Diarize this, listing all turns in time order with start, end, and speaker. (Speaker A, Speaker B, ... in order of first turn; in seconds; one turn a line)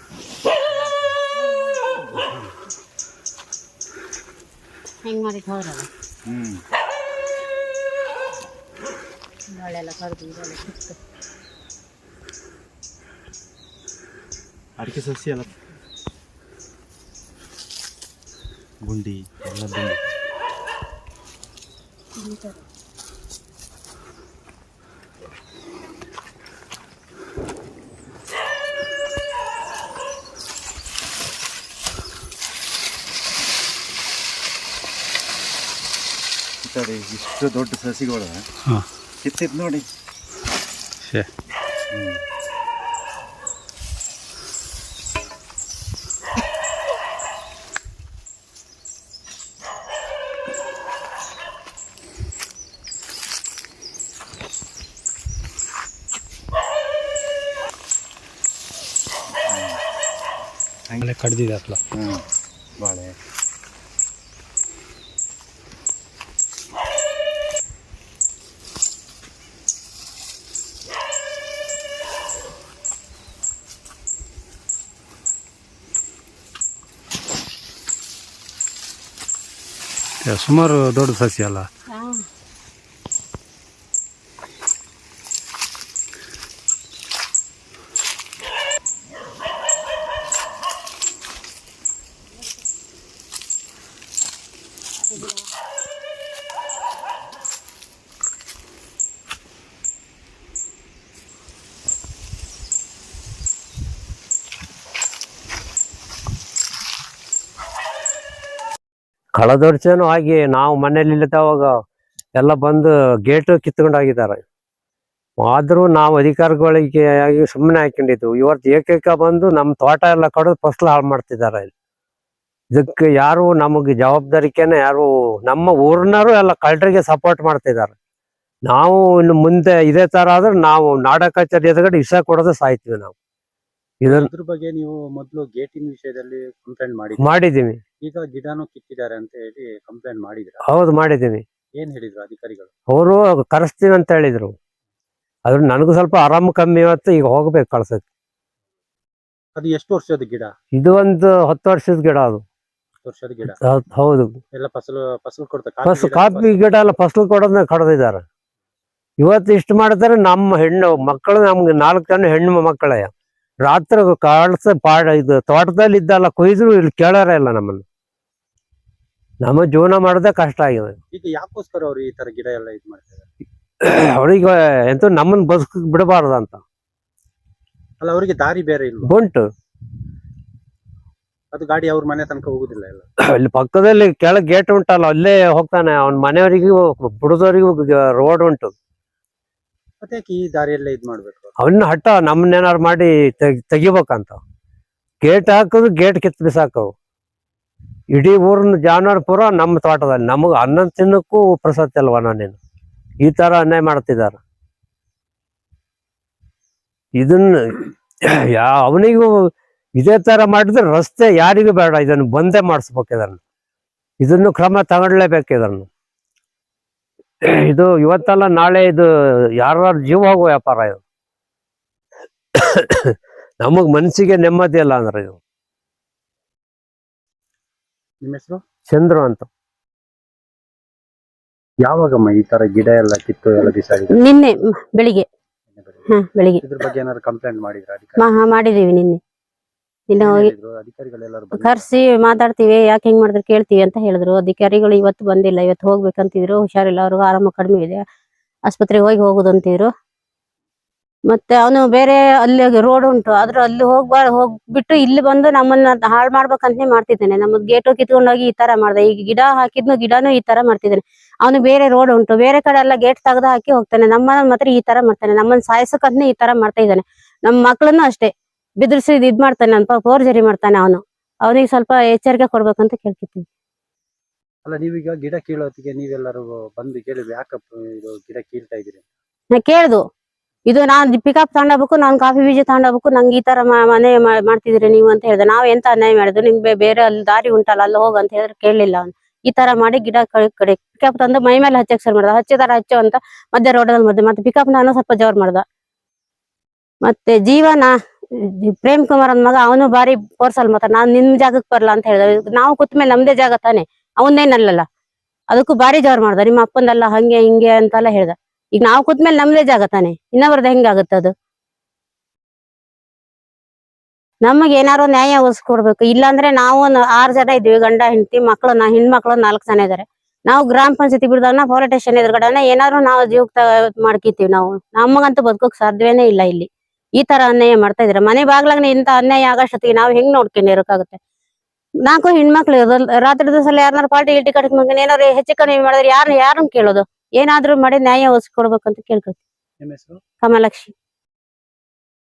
Speaker A: 0.7-1.1
Speaker B: 1.4-2.1
Speaker B: 5.0-5.9
Speaker A: 6.3-6.6
Speaker B: 9.5-10.9
Speaker A: 14.8-15.5
Speaker A: 18.8-20.0
Speaker B: 22.2-22.6
Speaker A: 36.6-38.4
Speaker A: 39.2-39.9
Speaker C: 41.0-41.3
Speaker A: 41.9-42.2
Speaker A: 59.5-59.8
Speaker C: 61.0-61.8
Speaker A: 61.9-62.2
Speaker A: 62.8-63.1
Speaker C: 80.2-81.7
Speaker B: 81.9-82.2
Speaker D: 109.3-111.7
Speaker D: 112.4-114.4
Speaker D: 115.4-121.7
Speaker D: 122.7-127.9
Speaker D: 128.7-133.1
Speaker D: 134.0-134.3
Speaker E: 134.1-137.3
Speaker D: 137.2-137.8
Speaker E: 138.0-140.6
Speaker D: 140.6-141.4
Speaker E: 141.8-142.7
Speaker D: 142.9-144.5
Speaker D: 145.5-148.0
Speaker E: 149.6-150.5
Speaker D: 150.7-152.4
Speaker E: 153.0-153.6
Speaker D: 153.4-154.4
Speaker E: 154.5-156.6
Speaker D: 155.8-158.2
Speaker D: 159.2-163.1
Speaker D: 163.7-167.8
Speaker D: 169.4-171.0
Speaker E: 171.1-173.3
Speaker D: 173.8-176.6
Speaker E: 178.0-179.2
Speaker D: 179.0-179.5
Speaker E: 181.5-183.1
Speaker D: 183.2-188.7
Speaker E: 190.0-191.5
Speaker D: 191.6-194.4
Speaker D: 195.2-196.9
Speaker D: 198.1-202.6
Speaker D: 203.2-204.4
Speaker D: 207.2-213.4
Speaker D: 214.2-215.9
Speaker D: 217.5-219.1
Speaker D: 219.6-221.0
Speaker D: 222.6-225.4
Speaker E: 228.2-228.6
Speaker D: 228.9-229.5
Speaker E: 231.8-234.1
Speaker B: 234.2-235.2
Speaker E: 235.7-236.1
Speaker B: 236.1-236.6
Speaker E: 236.6-238.3
Speaker B: 238.2-239.2
Speaker B: 240.1-240.5
Speaker E: 240.1-241.9
Speaker B: 241.5-248.0
Speaker B: 248.7-249.9
Speaker B: 251.3-273.4
Speaker E: 274.6-279.0
Speaker B: 279.6-280.0
Speaker B: 280.7-295.6
Speaker B: 297.0-304.8
Speaker B: 305.5-311.3
Speaker B: 314.4-326.7
Speaker B: 327.2-331.2
Speaker B: 332.1-339.4
Speaker E: 339.8-340.2
Speaker B: 340.4-340.9